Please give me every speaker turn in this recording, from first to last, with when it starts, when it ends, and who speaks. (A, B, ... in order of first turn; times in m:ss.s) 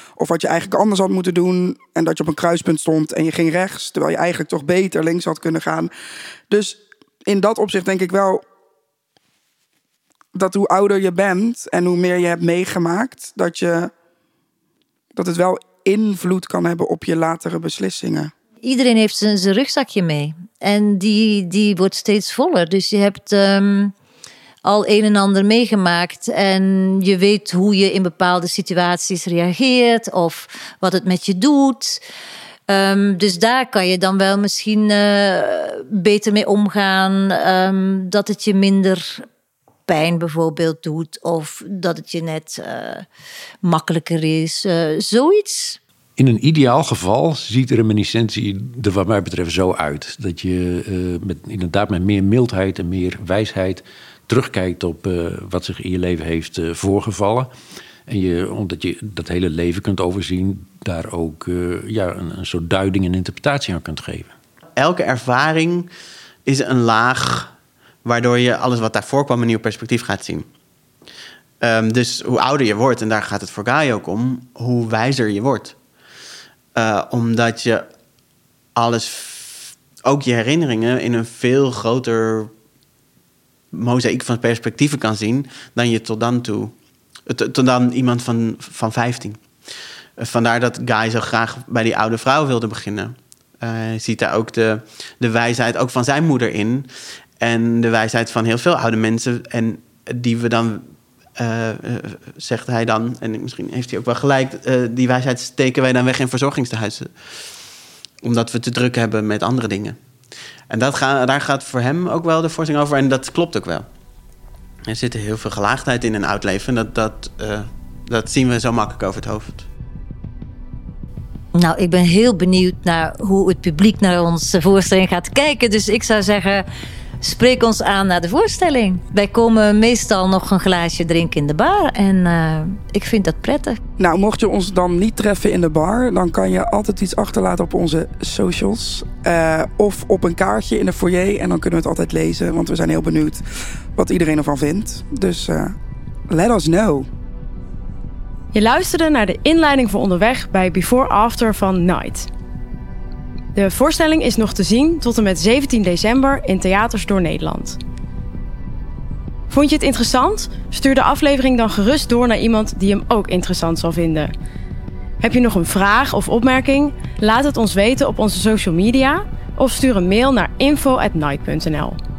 0:00.2-0:05.9 A
0:06.5-0:08.4 A
0:10.3-0:13.9 A
0:15.1-0:18.3 A
0:18.6-0:23.9 B
0:24.6-0:32.0 B
0:32.7-0:39.3 B
0:39.9-0:43.1 B
0:43.6-0:45.8 B
0:46.2-0:57.5 C
0:58.1-1:04.3 C
1:04.8-1:05.9 D
1:06.4-1:07.5 D
1:08.0-1:10.5 D
1:11.6-1:15.8 D
1:16.8-1:17.9 D
1:18.8-1:22.5 D
1:23.7-1:26.8 D
1:27.3-1:29.4 D
1:30.2-1:47.5 D
1:48.2-1:50.0 D
1:50.7-1:53.9 D
1:54.9-1:59.7 D
2:01.6-2:06.6 B
2:07.2-2:13.8 B
2:14.0-2:23.4 A
2:23.9-2:25.8 A
2:26.3-2:27.1 A
2:28.5-2:32.3 E
2:33.6-2:37.8 E
2:39.5-2:44.3 E
2:45.2-2:52.0 E